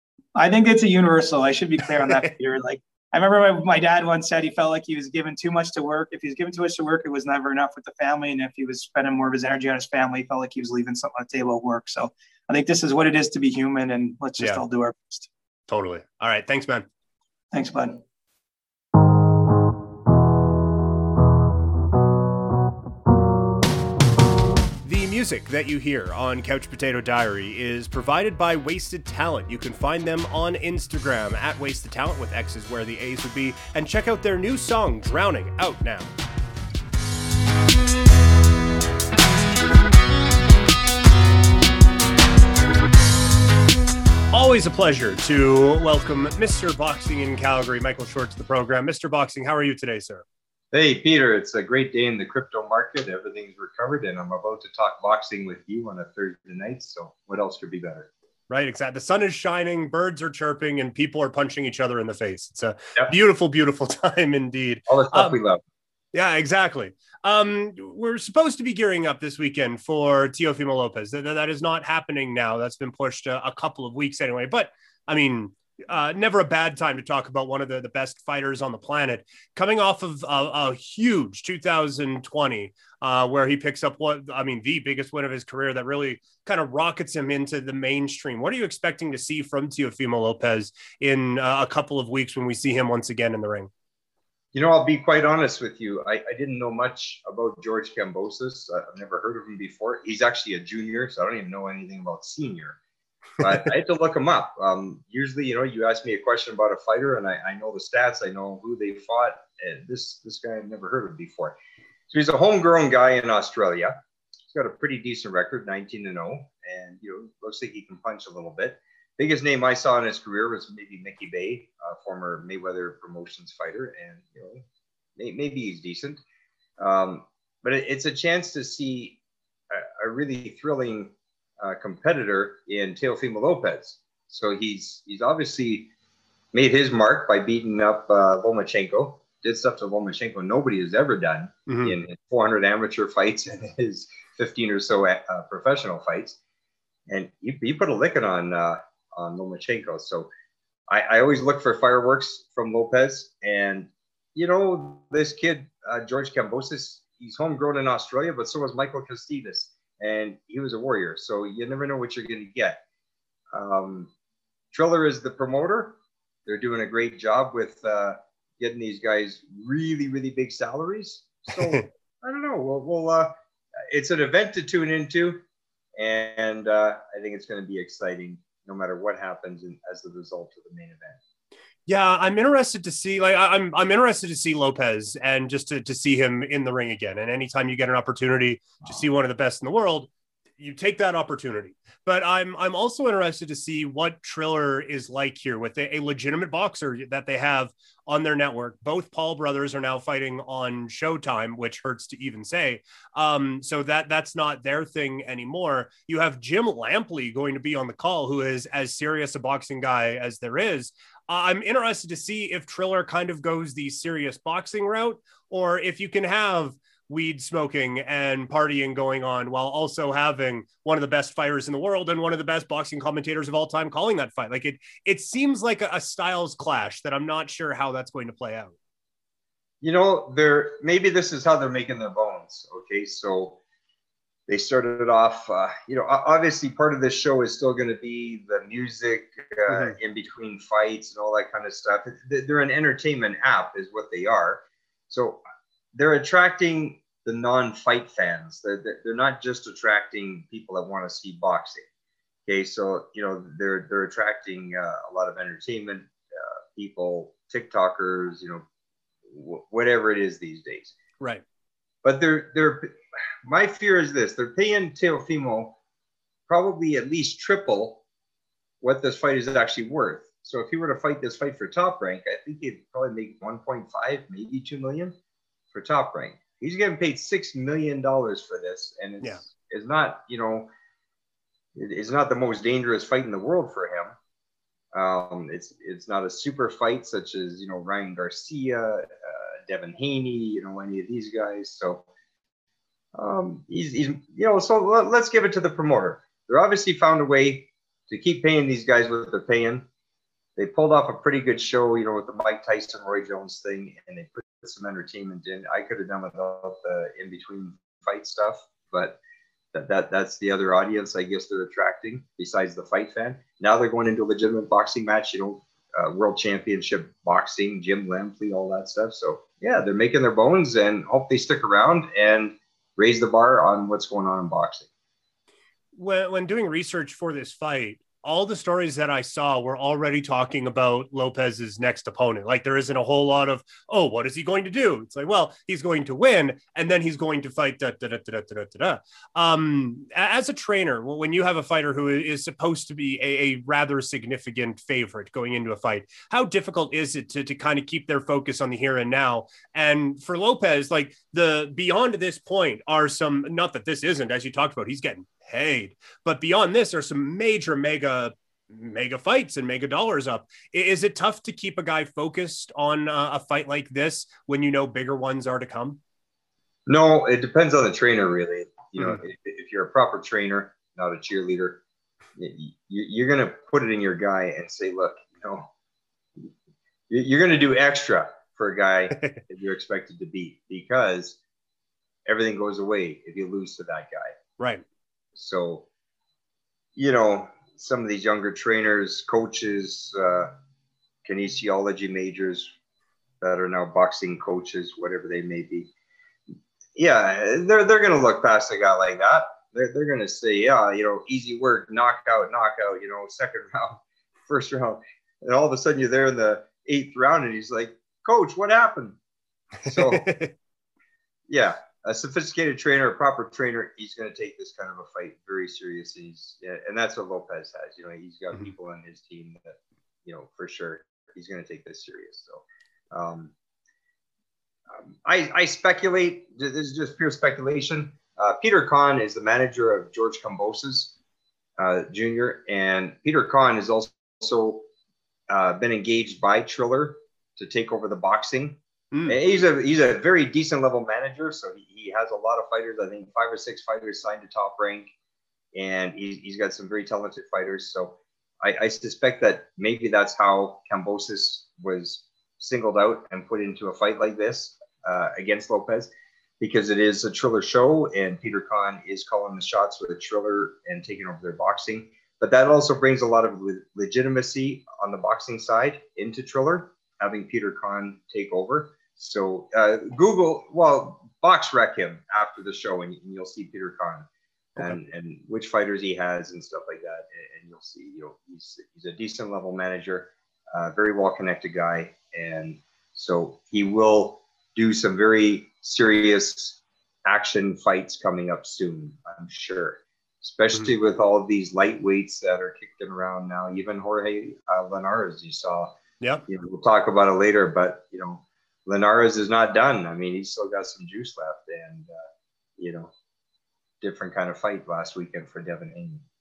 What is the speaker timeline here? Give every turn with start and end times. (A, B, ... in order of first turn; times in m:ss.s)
0:00.4-0:15.3 A
0:02.0-0:02.3 B
0:15.7-0:16.9 B
0:17.5-0:18.0 A
0:24.8-0:36.1 B
0:44.3-0:50.2 B
0:50.7-0:58.1 C
0:58.5-1:05.4 B
1:04.9-1:05.6 C
1:06.1-1:33.7 B
1:34.5-1:42.8 C
1:43.4-1:51.6 C
1:52.1-2:04.6 C
2:05.2-2:06.2 C
2:06.8-2:09.2 C
2:09.7-2:15.9 C
2:16.5-2:26.4 C
2:21.7-2:22.0 B
2:27.1-2:30.3 C
2:30.9-2:42.8 C
2:43.5-2:44.1 C
2:44.7-2:53.4 C
2:51.6-2:51.8 B
2:53.9-2:55.4 C
2:56.0-3:01.2 C
3:01.9-3:48.7 B
3:49.8-3:53.6 C
3:54.5-4:05.4 C
3:59.7-4:00.0 B
4:05.9-4:11.8 C
4:12.5-4:18.6 C
4:19.3-4:21.0 C
4:22.0-4:22.9 C
4:23.4-4:25.8 C
4:26.5-4:28.0 C
4:28.8-4:35.2 C
4:35.7-4:40.7 C
4:41.8-4:44.2 C
4:44.9-4:52.1 C
4:53.2-4:59.9 C
5:00.6-5:09.2 C
5:09.7-5:24.9 C
5:26.0-6:06.0 B
6:06.9-6:11.8 C
6:12.4-6:15.7 C
6:17.1-6:21.4 C
6:22.3-6:24.4 C
6:25.4-6:25.9 C
6:27.0-6:30.5 C
6:31.2-6:32.7 C
6:33.4-6:35.9 C
6:37.0-6:49.2 C
6:49.8-6:50.5 B
6:49.9-6:50.3 C
6:51.5-7:03.5 C
7:05.0-7:11.1 C
7:11.8-7:14.9 C
7:15.5-7:25.1 C
7:19.1-7:19.4 B
7:25.7-8:22.1 C
8:22.8-8:23.1 C
8:24.0-8:26.2 C